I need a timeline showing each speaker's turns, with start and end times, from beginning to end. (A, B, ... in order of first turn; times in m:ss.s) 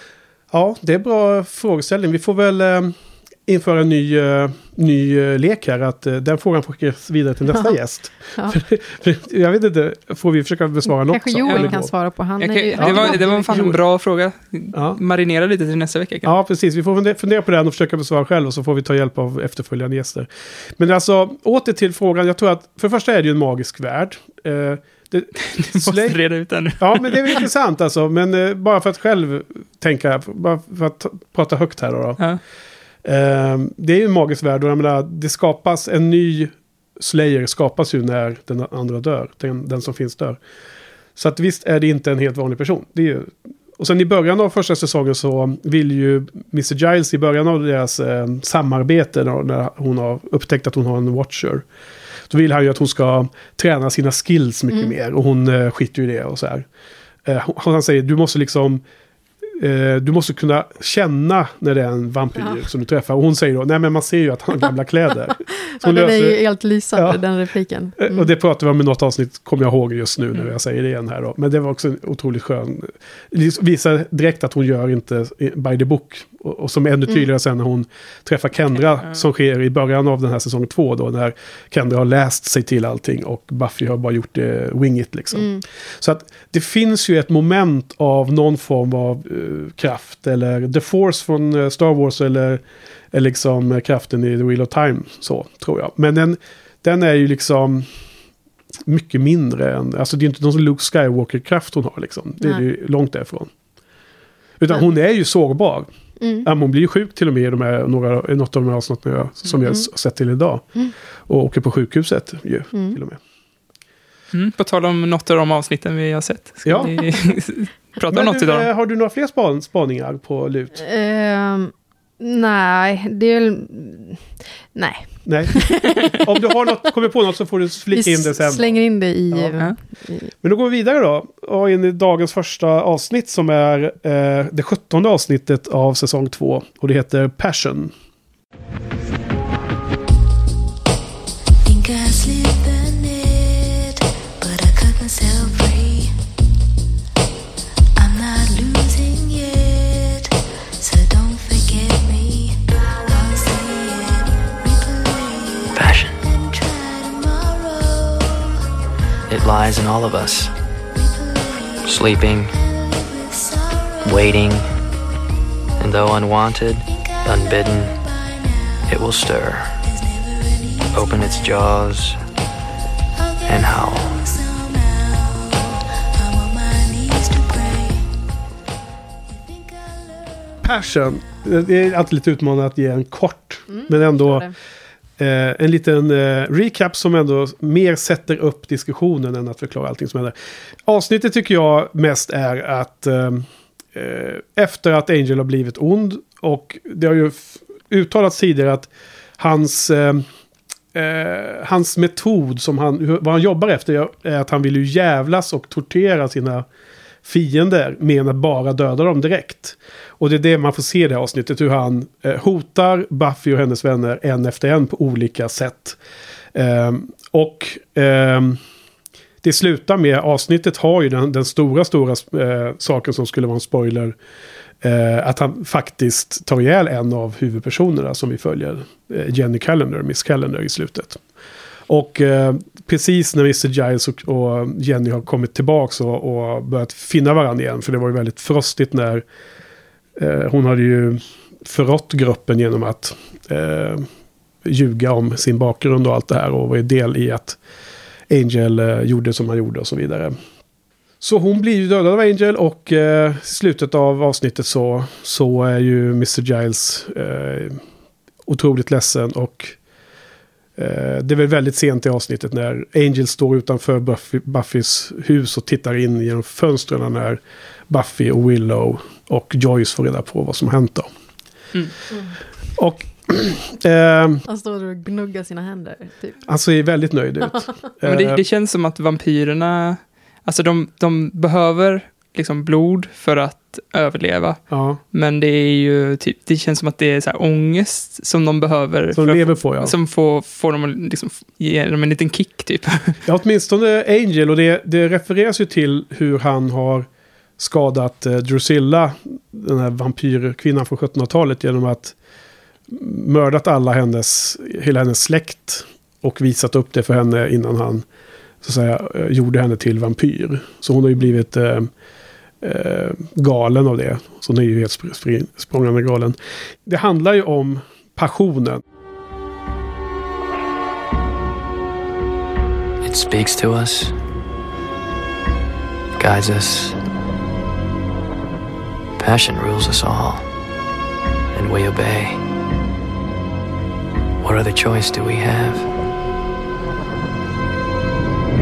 0:00.5-0:11.9 A
0:11.0-0:13.6 B
0:11.5-0:11.8 C
0:12.4-0:16.3 C
0:12.8-0:13.8 A
0:14.7-0:15.0 A
0:16.2-0:26.2 A
0:25.4-0:27.4 C
0:26.7-0:32.3 A
0:33.0-0:40.4 A
0:41.2-0:51.6 A
0:52.3-0:56.6 A
0:57.2-0:58.8 A
0:59.6-1:06.4 A
1:05.7-1:08.3 B
1:07.0-1:07.2 A
1:08.0-1:37.9 A
1:18.8-1:19.2 C
1:25.3-1:25.6 B
1:38.8-1:43.5 A
1:44.6-1:45.9 A
1:46.2-1:46.5 B
1:46.4-1:50.7 A
1:51.3-1:53.2 A
1:52.7-1:53.0 B
1:54.3-1:58.7 C
1:56.6-1:56.9 A
1:56.8-1:57.0 B
1:58.1-2:00.8 A
2:00.8-2:06.2 B
2:05.2-2:08.8 A
2:07.9-2:10.3 B
2:09.3-2:09.6 A
2:10.4-2:17.9 A
2:21.6-2:26.2 D
2:28.0-2:38.6 D
2:35.7-2:36.2 E
2:39.3-2:40.5 E
2:40.9-2:44.4 D
2:41.8-2:42.5 E
2:44.0-2:44.6 E
2:45.8-2:47.9 E
2:46.9-2:48.9 D
2:48.9-2:49.8 E
2:49.8-2:51.5 D
2:50.9-2:52.2 E
2:53.2-2:58.2 D
2:53.5-2:54.2 E
2:59.4-3:00.9 D
3:00.6-3:04.5 A
3:03.7-3:04.5 B
3:05.2-3:10.3 A
3:10.8-3:20.2 A
3:20.9-3:26.6 A
3:27.2-3:36.0 A
3:36.5-3:38.6 A
3:39.4-3:44.2 A
3:44.8-3:51.2 A
3:51.9-3:59.2 A
4:00.2-4:04.1 A
4:04.6-4:07.6 A
4:08.3-4:10.3 A
4:11.2-4:17.8 A
4:18.4-4:19.8 A
4:20.8-4:31.1 A
4:32.8-4:34.4 A
4:34.5-4:36.4 B
4:36.5-4:38.4 A
4:38.0-4:53.2 C
4:44.7-4:45.0 A
4:49.1-4:49.9 A
4:53.2-4:57.1 A
4:57.6-5:02.1 A
5:02.9-5:08.0 A
5:08.6-5:11.9 A
5:12.6-5:18.8 A
5:23.0-5:24.1 E
5:26.2-5:27.0 E
5:29.2-5:30.4 E
5:31.5-5:32.4 E
5:34.4-5:35.9 E